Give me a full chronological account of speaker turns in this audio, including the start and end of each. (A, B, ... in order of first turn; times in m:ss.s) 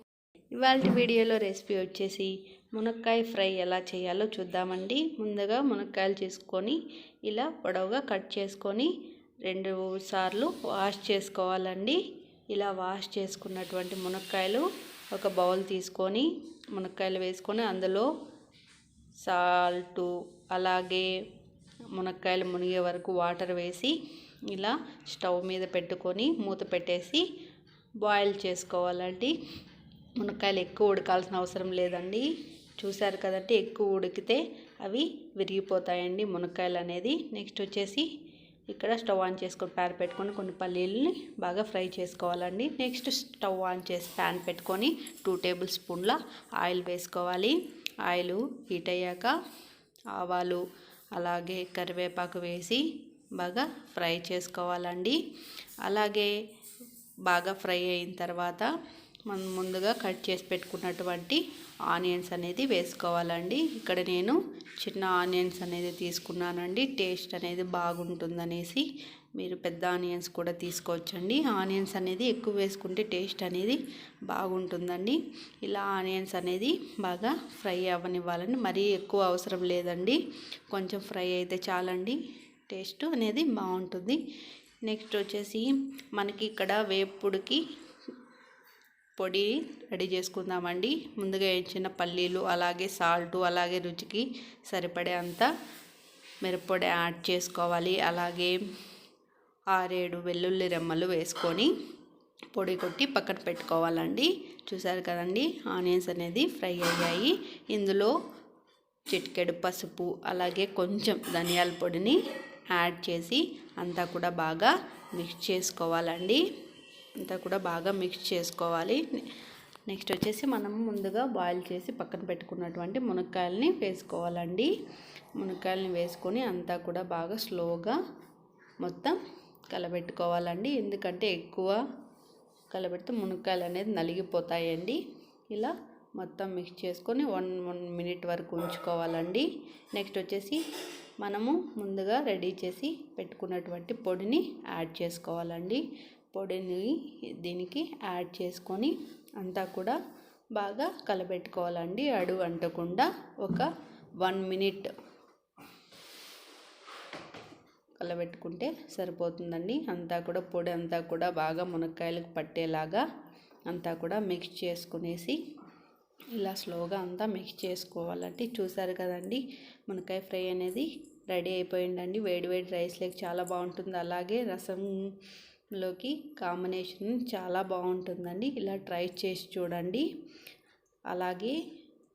0:00.5-0:08.9 A
0:09.4-0:12.0 A
0:12.5-0:18.1 A
0:19.2-0:21.1 A
0:21.9-0:24.0 A
0:24.5-0:27.2 A
0:28.0-0:29.4 A
0:30.2-0:38.1 A
0:38.7-0:49.3 A
0:50.1-0:50.6 A
0:51.2-0:52.8 A
0:53.4-0:55.2 A
0:55.8-0:56.3 A
0:57.3-0:58.7 A
0:59.3-1:08.8 A
1:09.4-1:20.2 A
1:20.7-1:24.2 A
1:24.8-1:27.6 A
1:29.2-1:35.5 A
1:36.4-1:38.6 A
1:39.7-1:41.7 A
1:42.5-1:48.1 A
1:49.1-1:52.2 A
1:52.7-1:56.4 A
1:57.2-1:59.2 A
1:59.9-2:04.7 A
2:05.4-2:08.0 A
2:08.8-2:09.2 A
2:09.7-2:11.8 A
2:12.7-2:15.0 A
2:15.5-2:20.6 A
2:21.2-2:30.0 A
2:30.6-2:33.7 A
2:34.2-2:34.9 A
2:38.0-2:43.0 A
2:43.7-2:45.4 A
2:46.4-2:54.9 A
2:55.7-3:00.0 A
3:01.1-3:01.6 A